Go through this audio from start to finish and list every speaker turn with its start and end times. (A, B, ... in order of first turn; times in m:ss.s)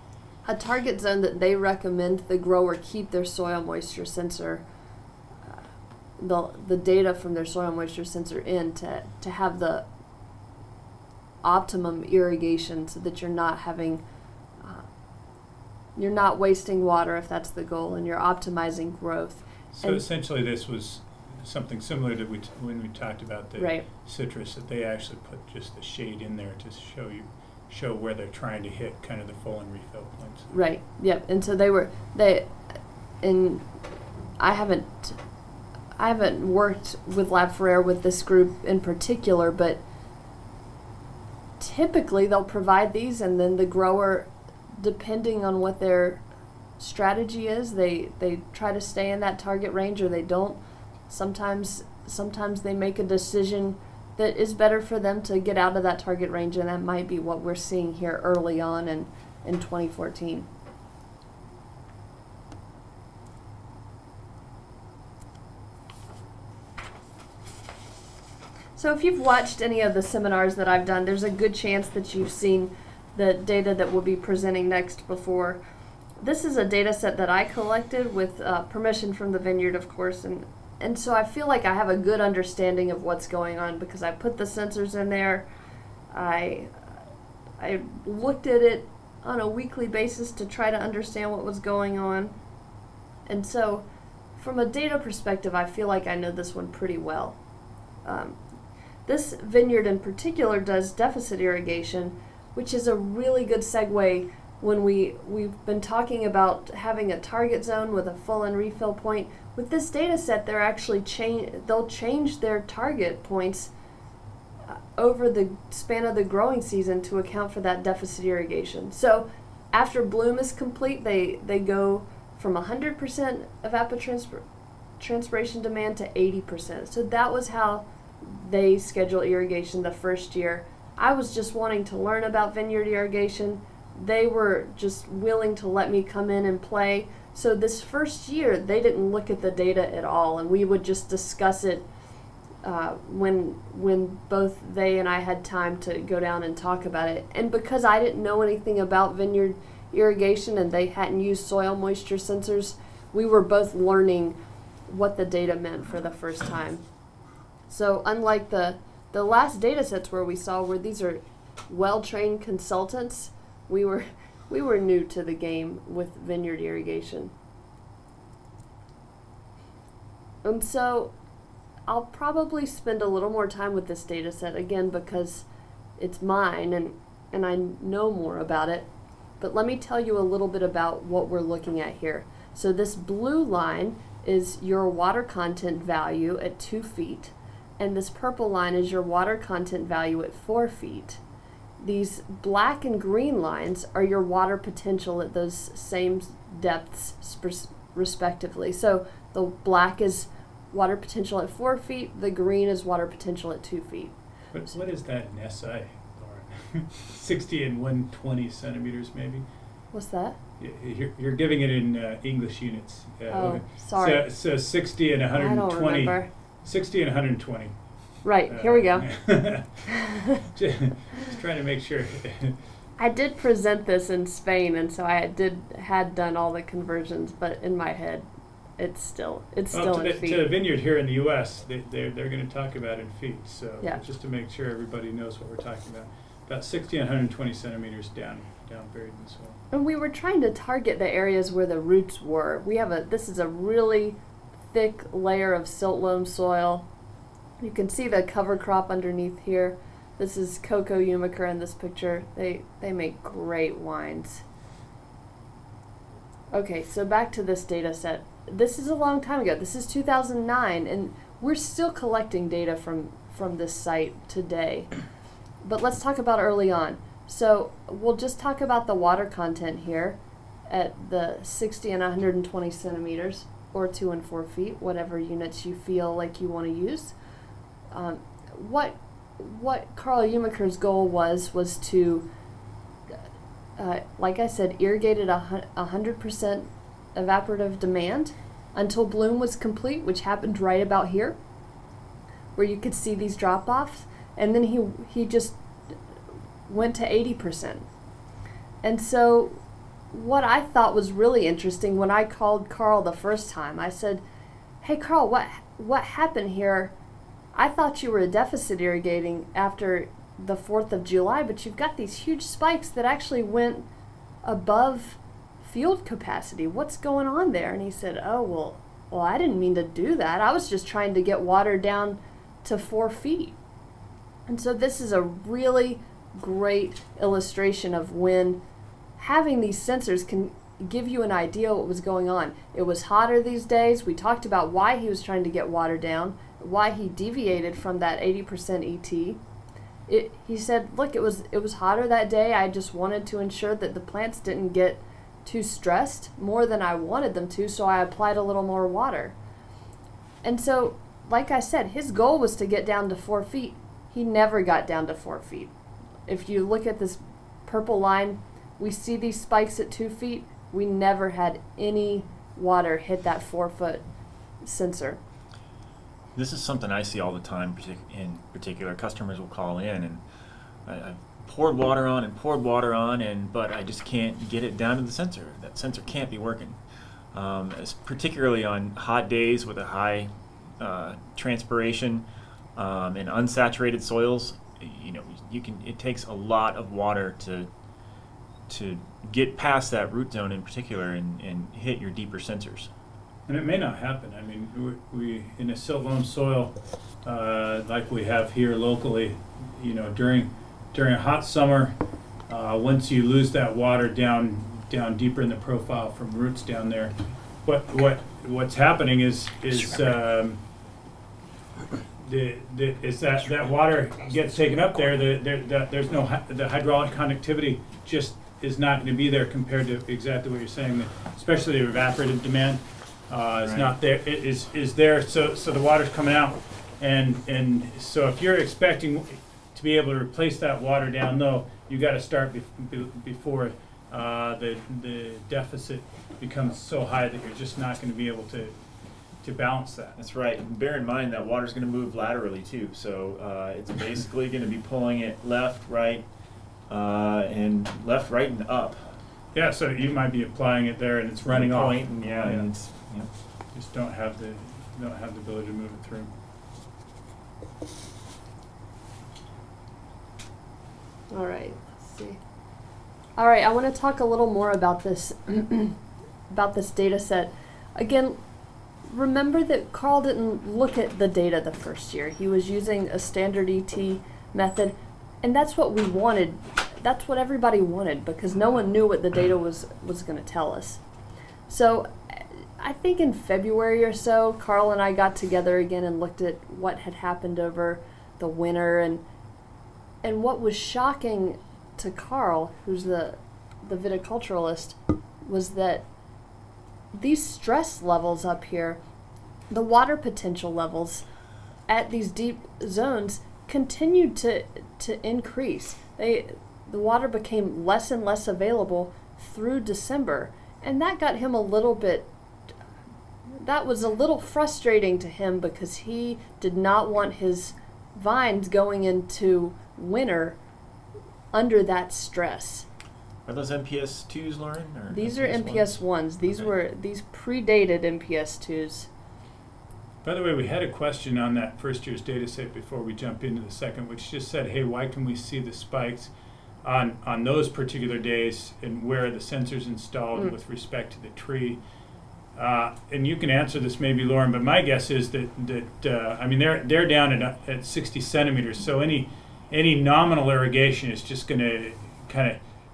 0:00.4-0:04.6 A
0:06.2-0:09.8 A
0:11.4-0:14.0 A
0:14.6-0:14.8 A
0:16.0-0:20.0 A
0:19.7-0:30.5 B
0:23.6-0:23.8 A
0:30.5-0:32.6 A
0:33.2-0:33.6 A
0:34.4-0:35.2 A
0:36.0-0:39.8 A
0:41.6-0:44.3 A
0:44.8-0:46.2 A
0:46.8-0:50.6 A
0:51.1-1:00.5 A
1:08.8-1:15.6 A
1:16.2-1:25.4 A
1:26.1-1:26.8 A
1:27.6-1:32.3 A
1:33.3-1:33.8 A
1:34.4-1:37.4 A
1:38.0-1:38.4 A
1:39.0-1:53.7 A
1:54.6-2:04.4 A
2:05.0-2:21.9 A
2:22.6-2:34.4 A
2:34.9-2:36.8 A
2:37.7-2:47.3 A
2:50.4-2:51.1 A
2:51.9-2:55.4 A
2:56.0-2:58.9 A
2:59.4-3:11.2 A
3:11.8-3:24.1 A
3:24.5-3:29.4 B
3:29.9-3:30.4 A
3:30.6-3:37.7 B
3:33.3-3:34.2 A
3:35.3-3:36.3 A
3:38.2-3:39.1 A
3:38.5-3:39.8 B
3:39.9-3:40.4 A
3:40.4-3:42.6 B
3:43.0-3:48.2 A
3:48.8-3:50.4 A
3:49.7-3:59.6 B
3:59.7-4:04.2 A
4:04.7-4:06.8 A
4:07.6-4:14.4 A
4:16.5-4:24.9 A
4:25.6-4:30.2 A
4:30.7-4:37.1 A
4:37.9-4:42.2 A
4:43.8-4:51.4 A
4:52.6-4:55.6 A
4:56.7-4:57.8 A
4:58.8-4:59.6 A
5:00.1-5:04.2 A
5:04.8-5:06.9 A
5:07.5-5:13.8 A
5:14.4-5:23.6 A
5:24.5-5:28.6 A
5:29.2-5:39.4 A
5:40.1-5:49.4 A
5:50.4-5:55.7 A
5:56.3-6:04.0 A
6:04.6-6:05.2 A
6:06.3-6:10.2 C
6:10.8-6:16.8 C
6:17.3-6:22.2 C
6:22.8-6:27.7 C
6:28.7-6:32.9 C
6:33.5-6:36.7 B
6:37.2-6:41.9 B
6:42.5-6:47.1 B
6:47.6-6:50.6 B
6:52.2-7:18.7 B
7:03.6-7:03.9 C
7:19.4-7:20.2 B
7:20.2-7:26.2 C
7:26.9-7:29.2 C
7:29.5-7:32.7 B
7:31.5-7:33.3 C
7:33.7-7:36.3 B
7:41.3-7:42.4 A
7:43.4-7:46.0 A
7:46.5-7:48.4 A
7:49.1-8:01.0 A
8:01.7-8:09.2 A
8:10.2-8:16.0 A
8:17.1-8:19.0 A
8:19.7-8:21.2 A
8:21.9-8:32.3 A
8:33.6-8:40.6 A
8:41.5-8:42.9 A
8:43.4-8:46.7 C
8:45.1-8:49.1 A
8:50.2-8:56.3 B
8:56.8-9:01.8 B
9:02.6-9:12.6 B